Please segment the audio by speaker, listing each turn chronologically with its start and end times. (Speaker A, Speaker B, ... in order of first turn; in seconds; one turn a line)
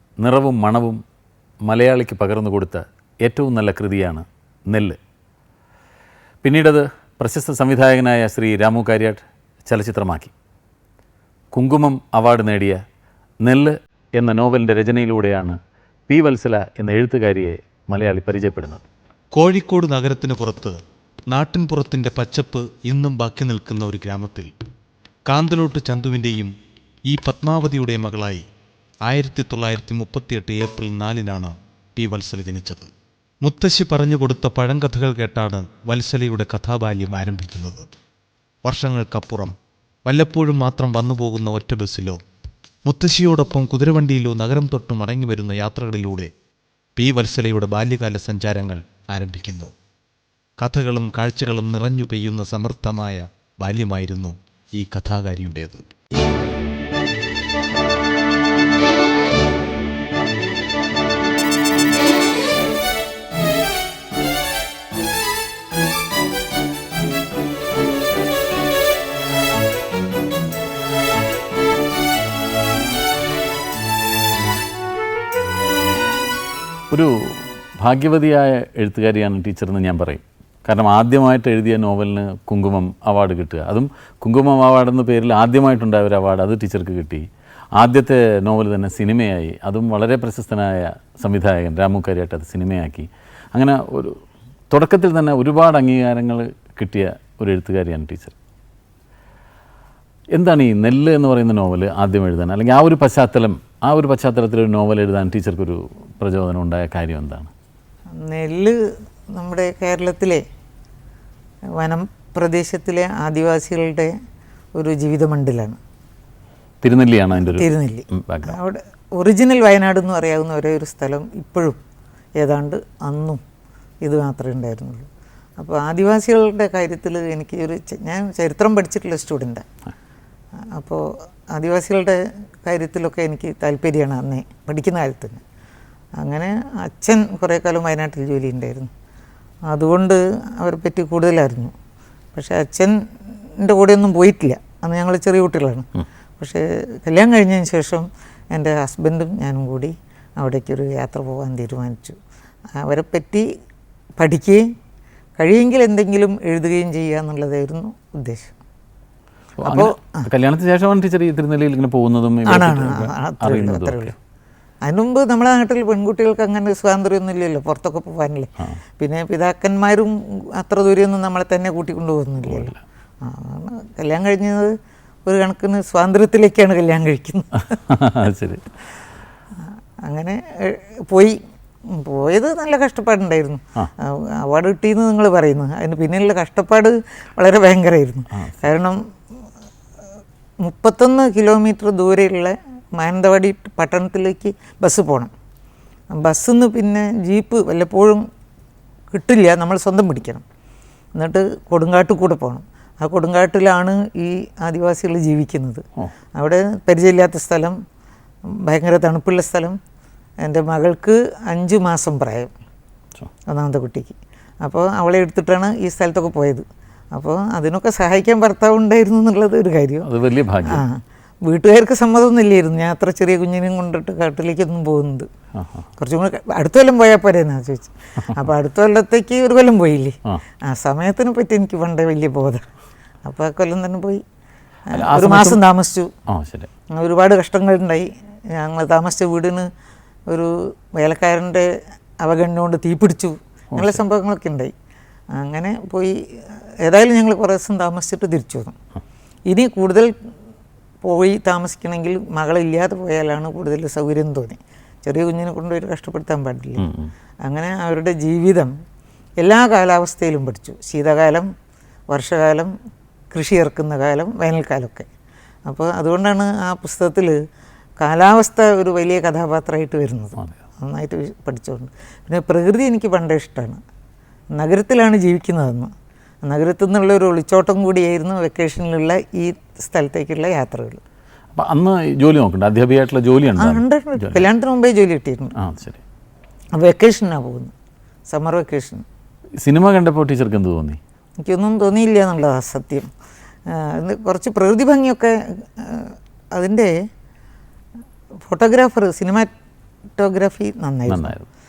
Speaker A: 0.2-1.0
Speaker A: 1.6-5.0
Speaker A: 6.4-10.3
Speaker A: 11.5-12.8
Speaker A: 13.4-15.6
Speaker A: 16.1-18.8
Speaker B: 19.3-20.8
Speaker B: 21.3-24.5
Speaker B: 25.3-26.5
Speaker B: 27.1-28.4
Speaker B: 29.1-32.9
Speaker B: 33.4-37.9
Speaker B: 38.6-39.5
Speaker B: 40.0-42.2
Speaker B: 42.8-46.3
Speaker B: 47.0-49.7
Speaker B: 50.6-55.8
Speaker A: 76.9-87.2
Speaker A: 87.8-94.2
Speaker A: 94.7-98.3
Speaker A: 100.3-107.5
Speaker C: 108.2-108.8
Speaker C: 109.3-110.4
Speaker C: 111.8-114.1
Speaker C: 114.8-115.8
Speaker A: 116.8-118.5
Speaker C: 117.5-121.8
Speaker C: 122.4-123.4
Speaker C: 124.0-125.1
Speaker C: 125.6-129.6
Speaker C: 130.7-135.4
Speaker C: 136.2-138.9
Speaker C: 139.7-141.7
Speaker C: 142.3-142.9
Speaker C: 143.6-145.8
Speaker C: 146.4-152.2
Speaker C: 152.8-153.4
Speaker C: 154.2-154.6
Speaker C: 155.4-158.5
Speaker A: 159.6-164.1
Speaker C: 159.6-160.3
Speaker C: 162.5-164.1
Speaker C: 164.8-174.7
Speaker A: 172.5-172.8
Speaker C: 175.2-177.6
Speaker A: 177.9-178.7
Speaker C: 180.0-181.4
Speaker C: 181.9-189.0
Speaker C: 190.6-195.3
Speaker C: 196.1-198.2
Speaker C: 199.1-200.4
Speaker C: 201.1-205.8
Speaker C: 206.3-207.8
Speaker C: 208.6-209.8
Speaker C: 210.4-212.5
Speaker C: 213.5-220.1
Speaker A: 220.0-220.8
Speaker C: 220.6-225.3
Speaker A: 225.6-225.8
Speaker C: 226.0-232.6
Speaker C: 233.2-234.2
Speaker A: 234.9-235.6
Speaker C: 234.9-236.1
Speaker A: 236.3-236.7
Speaker C: 236.9-239.7
Speaker C: 240.3-241.7
Speaker C: 242.2-244.7
Speaker C: 245.3-246.2
Speaker C: 246.8-248.7
Speaker C: 249.5-250.1
Speaker C: 251.0-256.9
Speaker A: 256.8-257.1
Speaker C: 257.4-258.7
Speaker C: 259.4-261.5
Speaker C: 262.1-262.7
Speaker C: 263.3-265.1
Speaker C: 265.7-267.4
Speaker C: 268.0-273.8
Speaker C: 274.6-275.9
Speaker C: 276.4-281.0
Speaker A: 281.5-284.4
Speaker C: 283.5-285.5
Speaker A: 285.6-286.0
Speaker C: 286.8-287.7
Speaker C: 288.3-289.0
Speaker A: 289.6-291.0
Speaker C: 291.4-293.1
Speaker C: 293.7-296.9
Speaker C: 298.5-299.5
Speaker C: 300.2-301.3
Speaker A: 301.1-301.5